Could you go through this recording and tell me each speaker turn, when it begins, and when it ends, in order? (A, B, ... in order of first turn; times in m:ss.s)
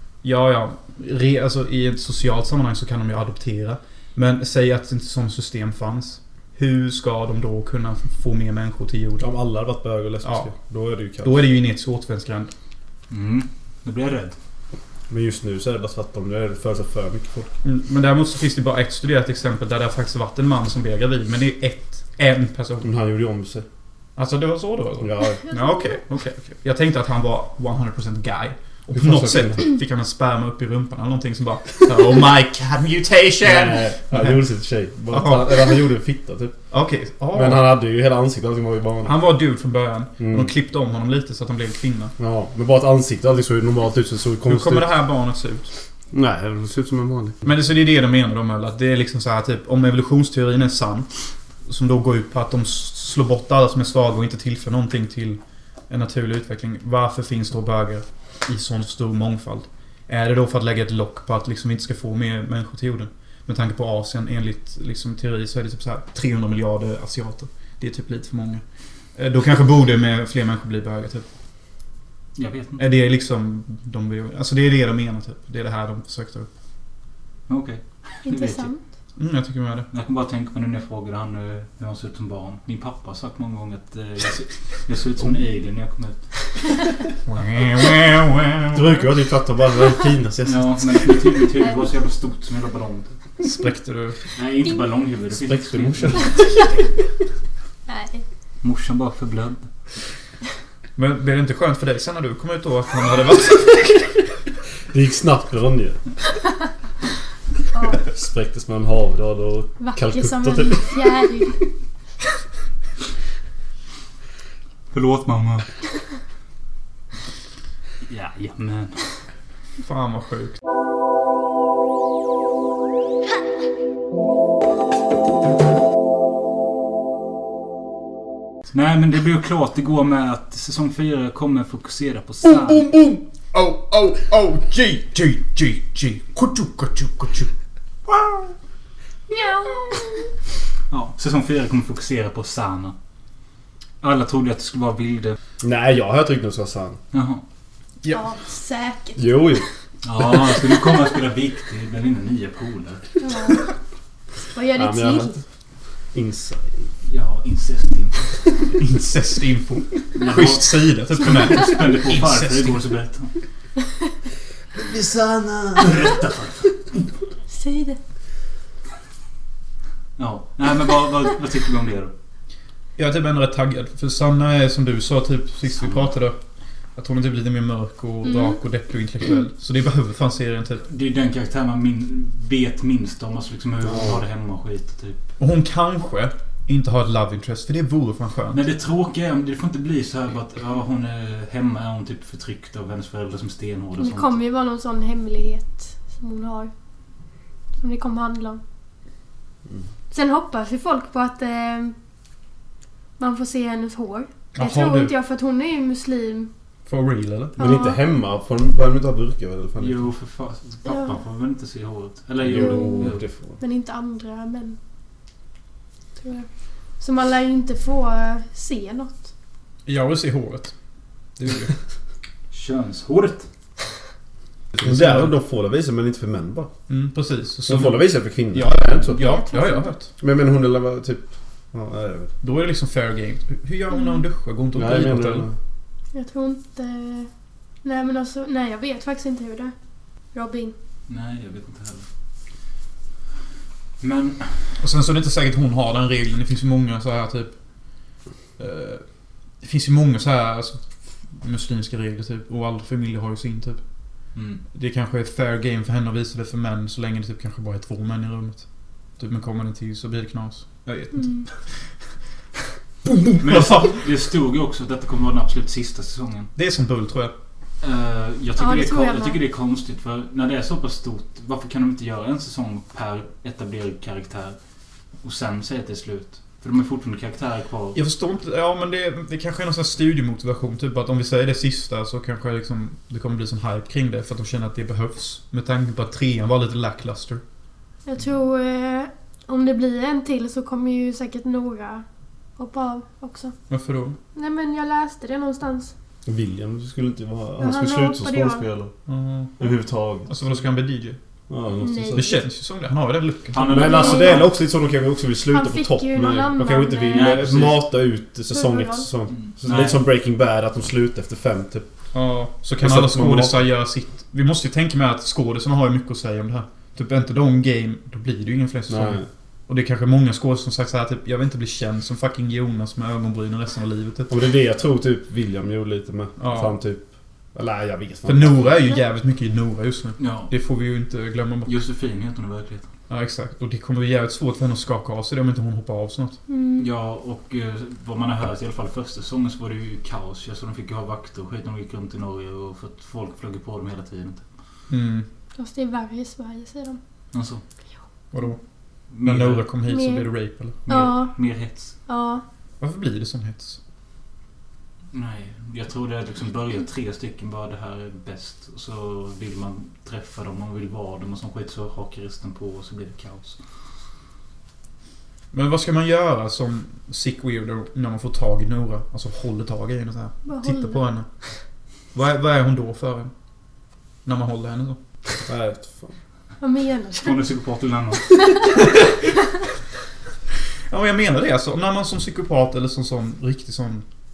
0:00.2-0:09.3 A
0:09.2-0:11.3 B
0:10.2-0:10.5 A
0:11.2-0:12.5 A
0:13.1-0:14.4 C
0:15.1-0:17.5 B
0:17.6-0:22.9 A
0:22.8-0:23.6 B
0:24.2-0:34.4 A
0:25.0-0:25.4 B
0:25.4-0:26.0 D
0:28.9-0:29.7 B
0:33.4-0:36.6 B
0:35.1-0:35.8 A
0:36.7-0:37.6 A
0:37.3-0:39.2 B
0:39.0-0:42.1 A
0:40.2-0:40.5 B
0:42.2-0:44.9 B
0:44.5-0:45.7 A
0:46.1-0:47.4 B
0:47.4-0:51.1 A
0:51.6-1:08.6 A
1:09.1-1:11.2 A
1:12.4-1:12.8 C
1:12.8-1:16.5 A
1:17.5-1:18.7 C
1:18.2-1:18.8 D
1:19.2-1:19.9 A
1:19.9-1:26.2 C
1:27.3-1:28.8 A
1:28.7-1:31.3 B
1:30.4-1:33.2 C
1:33.4-1:34.2 A
1:34.3-1:36.4 C
1:35.4-1:36.4 B
1:37.9-1:38.2 D
1:38.6-1:39.7 C
1:41.0-1:44.1 A
1:44.9-1:46.0 B
1:47.7-1:48.0 D
1:48.0-1:51.3 B
1:49.8-1:51.6 D
1:54.9-1:55.7 C
1:58.0-1:59.2 C
1:59.8-2:00.6 A
2:08.7-2:12.8 C
2:12.4-2:17.5 A
2:18.1-2:18.5 A
2:19.3-2:20.2 D
2:20.9-2:22.9 C
2:24.0-2:25.4 C
2:25.6-2:27.0 B
2:27.1-2:27.4 C
2:28.1-2:29.4 D
2:29.2-2:29.6 B
2:30.0-2:33.1 C
2:33.2-2:33.7 D
2:34.5-2:35.3 D
2:34.7-2:35.4 B
2:36.1-2:36.9 B
2:37.0-2:38.5 C
2:38.8-2:42.8 A
2:40.1-2:43.3 C
2:44.7-2:46.2 B
2:45.8-2:46.7 C
2:47.5-2:48.0 D
2:50.2-2:52.1 C
2:53.0-2:56.4 A
2:55.8-2:56.1 C
2:57.0-3:00.8 A
2:58.3-2:58.6 D
3:00.8-3:05.2 C
3:03.8-3:04.2 B
3:05.4-3:08.6 A
3:08.5-3:14.4 C
3:14.0-3:16.7 D
3:17.8-3:18.6 D
3:20.1-3:21.9 D
3:23.2-3:26.5 D
3:24.5-3:25.1 A
3:26.8-3:27.6 A
3:27.6-3:28.0 D
3:27.6-3:30.1 B
3:29.8-3:33.2 C
3:30.8-3:31.1 D
3:32.4-3:33.6 B
3:32.5-3:34.8 D
3:36.2-3:36.5 D
3:37.0-3:39.2 D
3:39.8-3:40.7 A
3:41.4-3:41.7 A
3:42.5-3:43.5 C
3:44.7-3:45.3 A
3:44.8-3:46.7 B
3:46.9-3:50.1 A
3:47.6-3:49.2 B
3:49.1-3:49.9 D
3:50.2-3:52.3 B
3:52.4-3:55.5 A
3:54.7-3:55.5 B
3:56.1-3:57.3 D
3:57.8-3:59.7 D
4:00.3-4:00.7 D
4:01.1-4:02.1 C
4:04.0-4:04.7 C
4:04.8-4:08.0 A
4:08.6-4:13.8 A
4:14.3-4:14.6 C
4:14.7-4:21.8 A
4:21.1-4:21.4 D
4:23.0-4:24.0 A
4:23.4-4:26.5 C
4:26.6-4:27.3 A
4:27.8-4:34.6 C
4:28.6-4:29.4 D
4:35.2-4:38.0 C
4:37.9-4:47.4 A
4:48.0-4:52.0 D
4:52.6-4:53.5 D
4:53.7-4:54.2 A
4:54.3-4:55.9 D
4:56.2-4:58.9 B
4:57.6-4:58.6 D
4:59.1-4:59.7 A
4:59.6-5:00.4 B
5:00.3-5:01.2 A
5:01.5-5:02.3 B
5:01.8-5:02.4 D
5:02.1-5:03.8 A
5:03.5-5:04.5 C
5:03.6-5:11.9 B
5:03.9-5:04.4 D
5:05.5-5:07.5 D
5:07.1-5:07.8 C
5:08.5-5:09.1 D
5:09.3-5:10.0 C
5:12.1-5:24.3 A
5:12.8-5:13.6 B
5:18.9-5:19.3 B
5:24.3-5:27.0 B
5:26.4-5:26.7 A
5:27.5-5:28.8 B
5:28.2-5:31.7 A
5:30.2-5:30.5 C
5:31.6-5:32.9 C
5:33.1-5:36.4 A
5:36.5-5:36.8 D
5:36.8-5:44.4 C
5:44.9-5:45.2 A
5:45.6-5:47.0 D
5:47.3-5:47.6 C
5:48.3-5:48.6 A
5:49.1-5:49.6 C
5:49.2-5:50.8 A
5:49.8-5:50.2 D
5:50.8-5:51.9 C
5:50.9-5:51.3 D
5:52.0-5:52.4 D
5:52.8-5:53.8 A
5:55.1-6:03.6 C
6:05.5-6:11.2 A
6:10.4-6:11.0 D
6:12.1-6:13.3 A
6:14.2-6:15.0 A
6:15.4-6:16.2 B
6:16.6-6:17.4 D
6:17.1-6:18.4 C
6:18.4-6:18.7 D
6:18.8-6:19.1 A
6:20.9-6:24.0 A